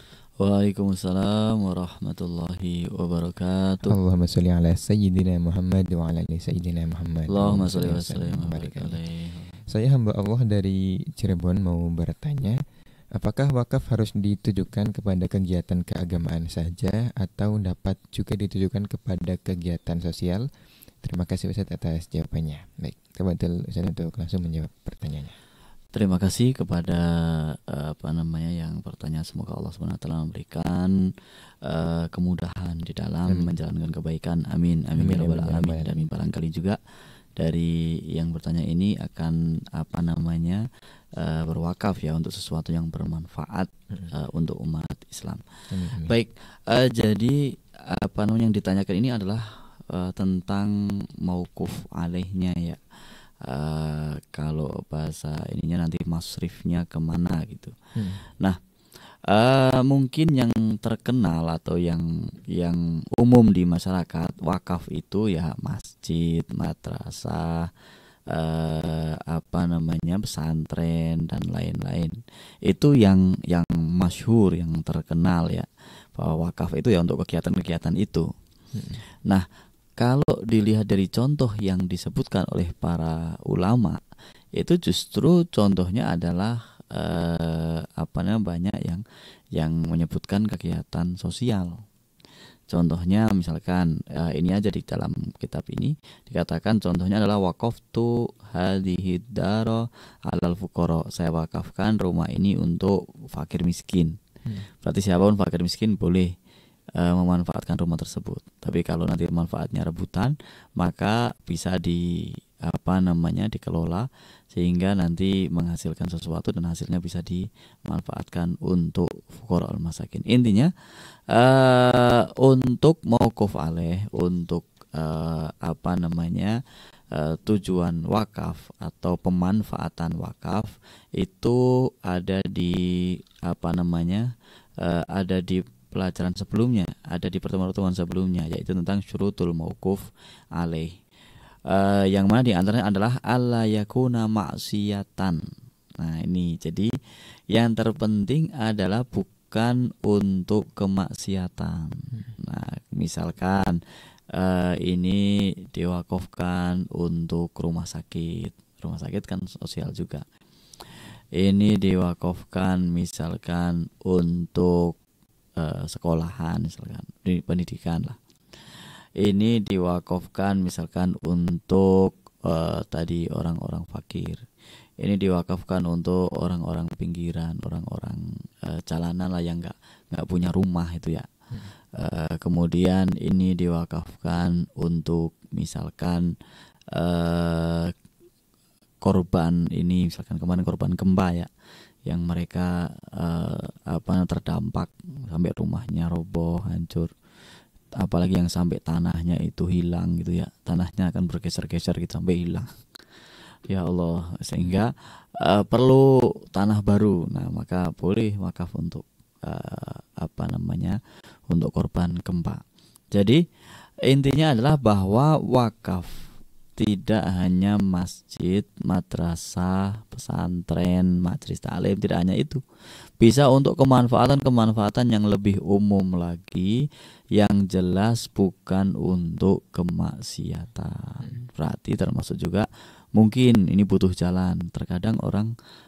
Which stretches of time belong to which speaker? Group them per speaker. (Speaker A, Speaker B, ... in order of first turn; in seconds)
Speaker A: 0.4-4.0, 7.3-9.6, 25.9-30.9, 31.6-36.8, 37.4-40.6, 41.2-58.6, 59.3-67.7, 68.3-78.3, 80.0-84.0, 84.6-89.0, 89.5-91.8, 92.7-104.2, 104.8-106.3, 107.0-126.6, 127.1-134.3, 134.8-141.0, 141.7-145.4, 146.0-146.9, 147.5-153.8, 154.3-160.2, 161.4-164.9, 165.6-168.2, 169.2-174.4, 175.0-181.3, 181.9-186.3, 186.9-187.9, 189.0-191.5, 192.1-197.1, 198.0-202.8, 203.7-211.0, 211.5-212.6, 213.2-213.4, 214.1-216.1, 216.8-222.6, 223.2-226.8, 227.4-235.5
Speaker B: 3.9-9.0, 9.7-12.6, 13.2-20.5, 21.0-25.4, 33.3-33.5, 35.0-36.0, 45.7-46.1, 58.0-58.2, 78.7-79.0